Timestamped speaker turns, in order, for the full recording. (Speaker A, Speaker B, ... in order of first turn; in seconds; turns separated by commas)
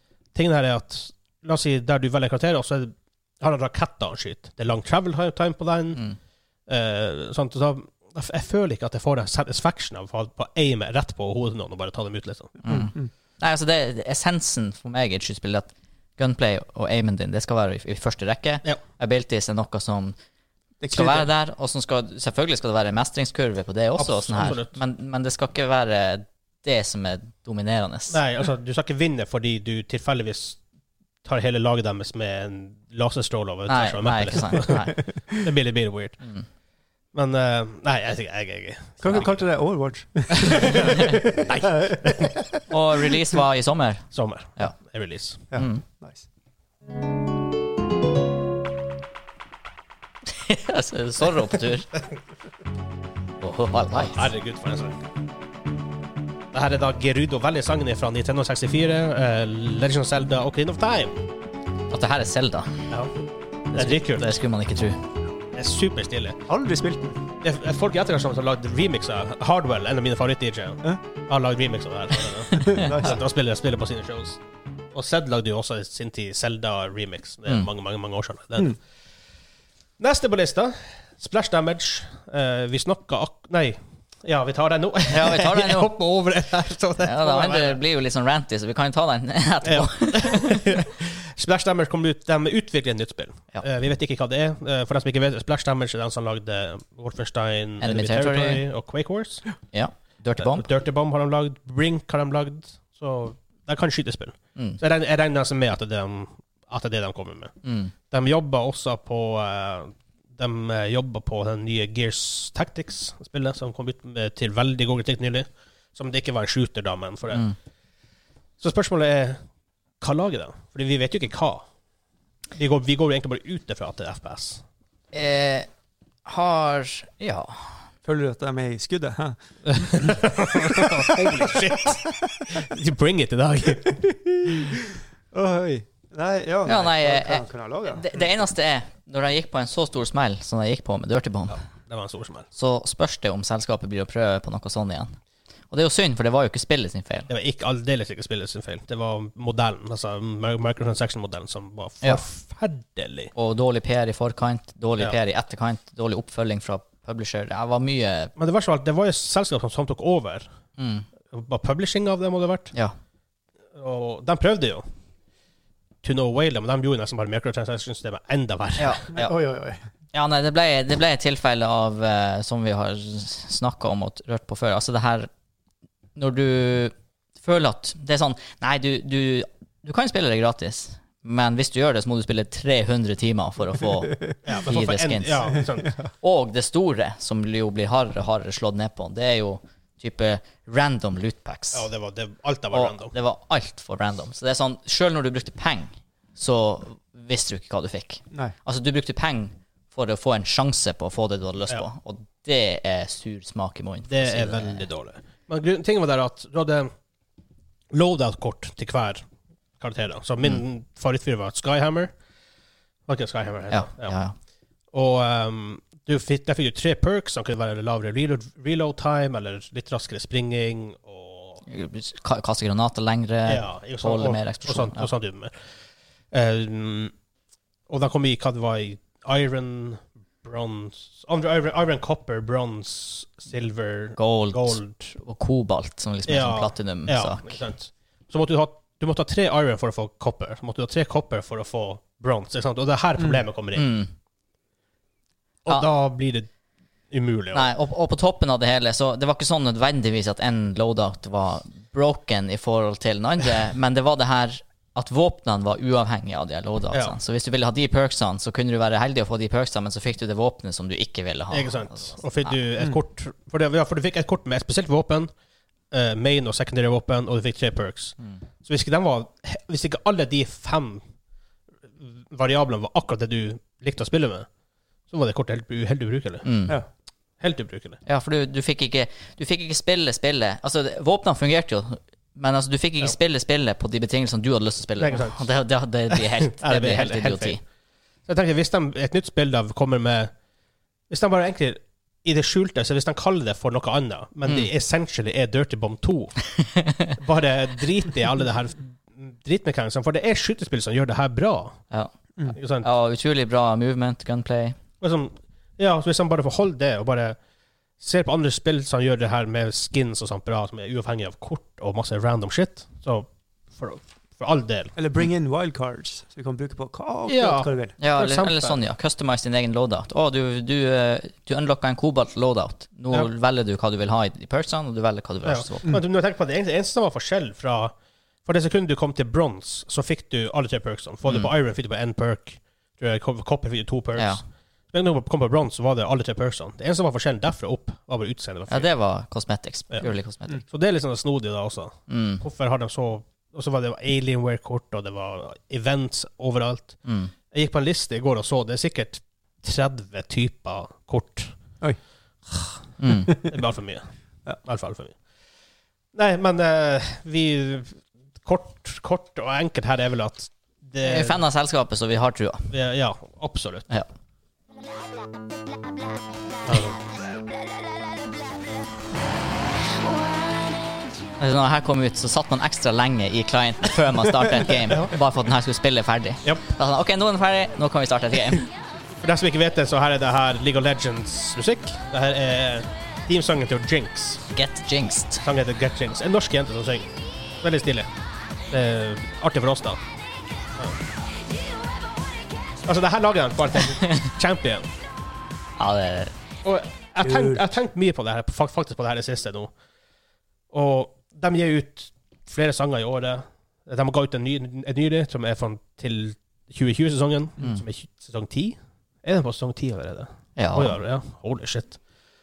Speaker A: 0.3-6.0, Speaker A: 6.7-12.6, Speaker B: 12.6-20.1, Speaker C: 12.7-13.1, Speaker C: 20.8-21.3, Speaker B: 20.9-28.2, Speaker A: 24.0-24.8, Speaker A: 28.1-30.6, Speaker A: 31.2-36.2, Speaker B: 33.7-35.0, Speaker A: 37.1-39.4, Speaker C: 39.0-42.6, Speaker A: 40.4-42.4, Speaker B: 40.9-41.2, Speaker B: 42.7-44.7, Speaker A: 44.1-45.4, Speaker C: 45.5-46.2, Speaker B: 45.5-45.8, Speaker B: 50.3-52.0, Speaker B: 53.4-54.3, Speaker A: 53.9-54.9, Speaker A: 56.5-61.1, Speaker B: 61.9-62.9, Speaker A: 63.7-64.3, Speaker B: 63.7-65.0, Speaker A: 65.5-66.4, Speaker C: 66.5-67.2, Speaker A: 67.4-74.4, Speaker B: 72.5-73.0, Speaker C: 72.6-73.2, Speaker A: 74.9-78.8, Speaker A: 80.0-87.8, Speaker B: 85.1-85.9, Speaker B: 87.0-90.7, Speaker A: 89.6-99.5, Speaker B: 97.8-98.6, Speaker B: 99.7-100.7, Speaker A: 100.4-107.5, Speaker B: 107.6-107.9, Speaker A: 108.1-117.5, Speaker A: 118.6-119.4, Speaker A: 120.0-121.7, Speaker A: 122.5-124.6, Speaker B: 125.1-125.7, Speaker B: 126.2-127.7, Speaker C: 128.0-132.4, Speaker A: 129.7-134.1, Speaker C: 134.1-138.1, Speaker B: 136.7-141.6, Speaker A: 141.5-142.5, Speaker B: 142.5-145.1, Speaker B: 145.7-147.3, Speaker A: 147.3-153.3, Speaker B: 153.3-158.3, Speaker A: 158.4-160.5, Speaker B: 160.8-161.1, Speaker A: 161.3-162.7, Speaker A: 163.8-164.8, Speaker A: 166.0-169.0, Speaker B: 168.8-169.3, Speaker C: 169.1-169.8, Speaker B: 170.1-175.3, Speaker B: 176.2-185.6, Speaker A: 184.4-185.9, Speaker B: 186.2-191.9, Speaker A: 191.7-193.1, Speaker B: 192.7-204.8, Speaker A: 204.1-206.9, Speaker A: 207.9-209.2, Speaker A: 209.8-212.1, Speaker A: 213.1-214.2, Speaker B: 213.7-214.3, Speaker A: 214.9-221.6, Speaker B: 221.7-225.1, Speaker A: 223.5-225.5, Speaker A: 226.3-227.1, Speaker A: 227.9-235.1, Speaker B: 234.2-237.6, Speaker A: 236.2-243.9, Speaker B: 243.7-244.1, Speaker A: 245.6-246.5, Speaker A: 247.1-247.7, Speaker B: 247.5-262.5, Speaker A: 261.5-265.3, Speaker A: 265.9-271.0, Speaker A: 272.0-274.5, Speaker A: 275.1-276.5, Speaker B: 276.4-276.8, Speaker A: 277.4-278.0, Speaker B: 278.1-287.6, Speaker A: 285.0-285.4, Speaker A: 286.1-287.6, Speaker A: 288.2-290.3, Speaker A: 291.1-296.4, Speaker B: 296.6-297.1, Speaker A: 297.2-301.8, Speaker A: 302.5-302.9, Speaker B: 302.8-304.8, Speaker A: 305.0-307.4, Speaker A: 308.0-314.9, Speaker C: 315.0-317.9, Speaker A: 317.3-318.8, Speaker B: 318.0-325.9, Speaker A: 325.4-327.9, Speaker A: 328.4-334.4, Speaker A: 334.9-338.9, Speaker B: 338.7-340.6, Speaker A: 340.6-351.6, Speaker B: 342.1-342.4, Speaker B: 347.0-347.3, Speaker B: 353.0-353.5, Speaker C: 353.1-353.4, Speaker A: 353.4-354.1, Speaker A: 354.6-355.2, Speaker A: 356.1-361.4, Speaker B: 361.0-362.7, Speaker A: 362.7-363.9, Speaker A: 366.7-367.0, Speaker B: 371.4-378.7, Speaker A: 379.2-384.4, Speaker B: 384.5-385.4, Speaker A: 385.4-387.1, Speaker A: 387.6-388.1, Speaker A: 388.7-390.0, Speaker A: 392.9-394.9, Speaker B: 395.8-396.3, Speaker A: 396.6-399.7, Speaker C: 397.2-397.6, Speaker A: 400.7-412.0, Speaker B: 410.6-411.0